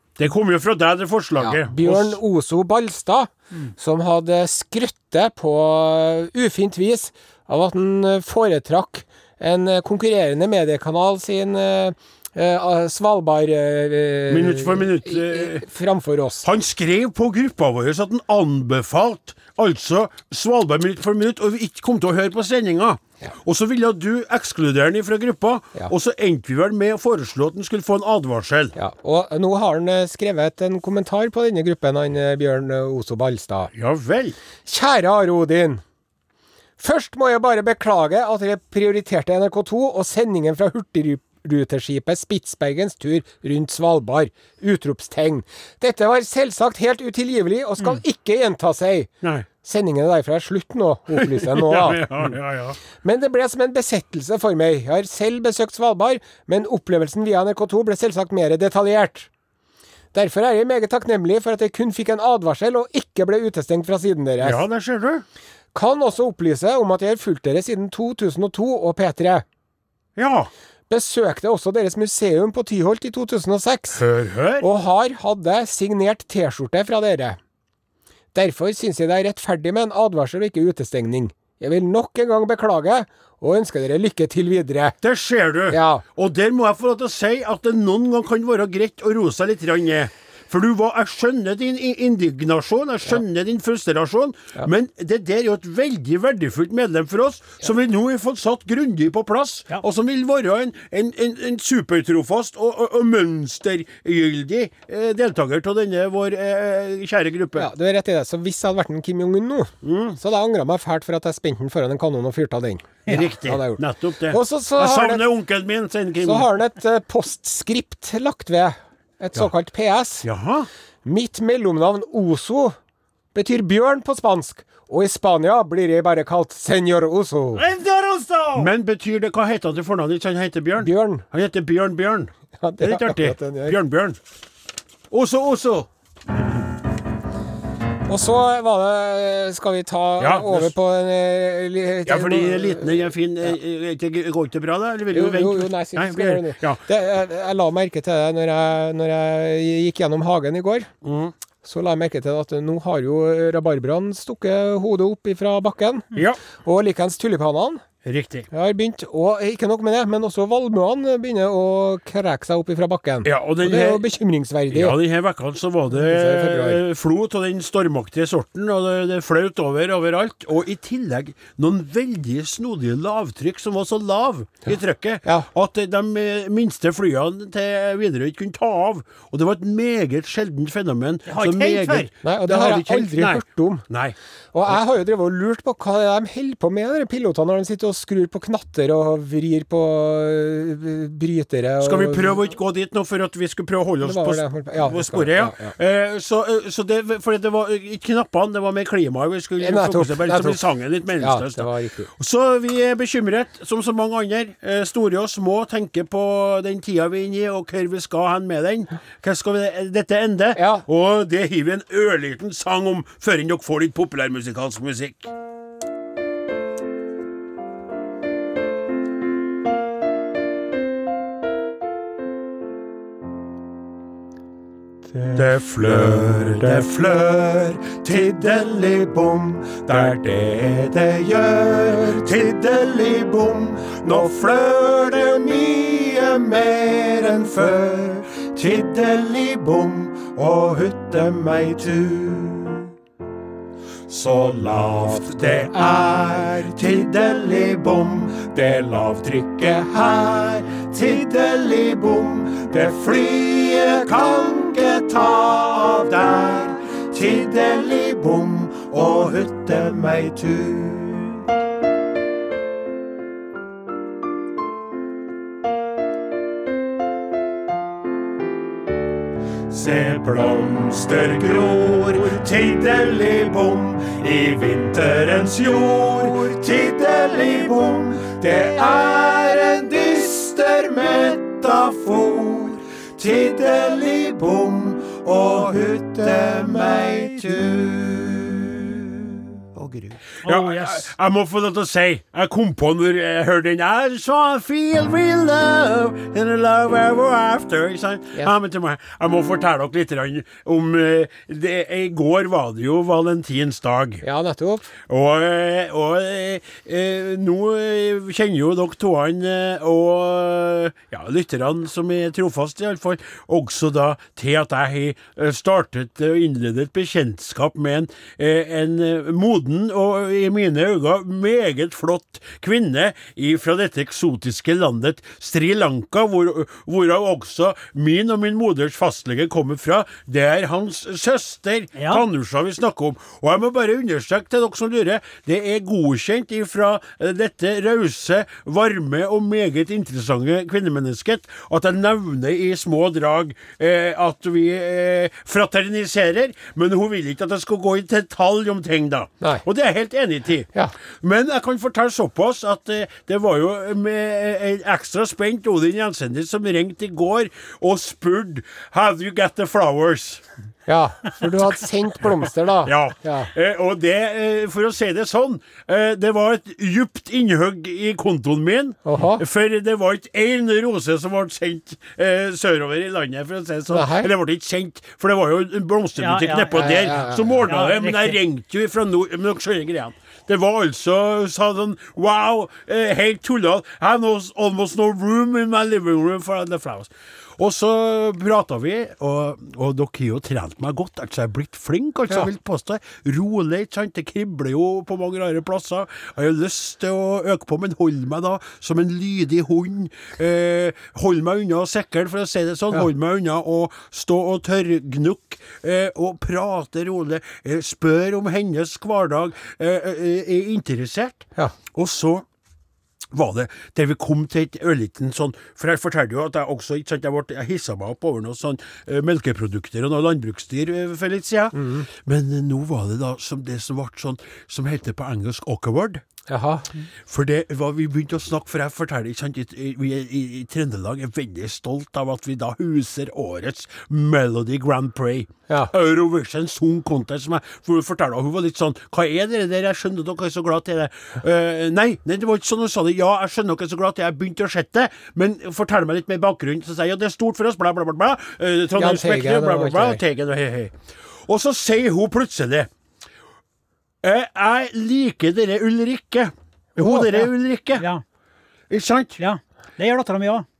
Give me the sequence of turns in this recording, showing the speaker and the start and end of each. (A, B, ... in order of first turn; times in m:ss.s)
0:00.2-0:02.2 A
0:01.4-0:16.4 B
0:14.3-0:15.6 A
0:16.4-0:28.7 A
0:28.8-0:33.7 B
0:33.7-0:34.4 A
0:34.6-0:35.8 B
0:36.8-0:49.1 B
0:49.2-0:49.5 A
0:49.6-0:52.3 B
0:51.1-0:52.8 A
0:53.0-0:59.3 B
1:00.1-1:04.6 B
1:04.4-1:05.2 A
1:05.7-1:09.4 B
1:10.2-1:10.5 A
1:10.9-1:14.0 B
1:13.9-1:14.6 A
1:14.6-1:17.4 B
1:18.3-1:25.0 B
1:25.0-1:47.7 A
1:25.7-1:26.0 B
1:47.6-1:55.2 B
1:49.8-1:50.2 A
1:53.0-1:56.5 A
1:56.2-2:00.2 B
2:00.2-2:00.7 A
2:01.0-2:02.8 B
2:03.3-2:07.6 B
2:07.6-2:08.7 C
2:08.5-2:14.2 A
2:10.8-2:11.2 B
2:12.6-2:13.8 B
2:15.1-2:15.9 A
2:18.1-2:23.5 B
2:20.2-2:20.7 A
2:22.0-2:26.8 A
2:25.1-2:30.9 B
2:31.0-2:31.3 A
2:31.6-2:37.8 B
2:36.1-2:36.4 A
2:38.0-2:38.5 A
2:38.5-2:45.0 B
2:43.2-2:44.1 A
2:44.7-3:04.2 A
2:45.9-2:46.8 B
3:01.3-3:02.1 C
3:02.2-3:03.8 B
3:04.5-3:12.4 B
3:11.8-3:35.3 A
3:14.0-3:15.7 B
3:19.6-3:20.6 B
3:21.2-3:22.1 B
3:30.5-3:30.8 B
3:45.3-4:02.9 A
4:04.1-4:21.4 A
4:29.7-5:04.2 A
4:50.4-4:51.1 C
5:04.2-5:04.9 B
5:05.1-6:00.4 A
5:32.0-5:32.2 C
6:00.8-6:03.5 B
6:02.8-6:52.4 A
6:09.0-6:09.4 B
6:13.9-6:14.3 B
6:16.2-6:18.4 C
6:16.7-6:17.6 B
6:53.3-7:06.2 A
7:01.7-7:02.1 B
7:06.5-7:06.9 B
7:07.2-7:30.9 A
7:29.0-7:30.2 B
7:31.4-7:32.9 A
7:34.2-7:38.0 A
7:37.0-7:37.4 B
7:38.0-7:38.2 C
7:38.9-7:39.4 A
7:39.4-7:40.6 C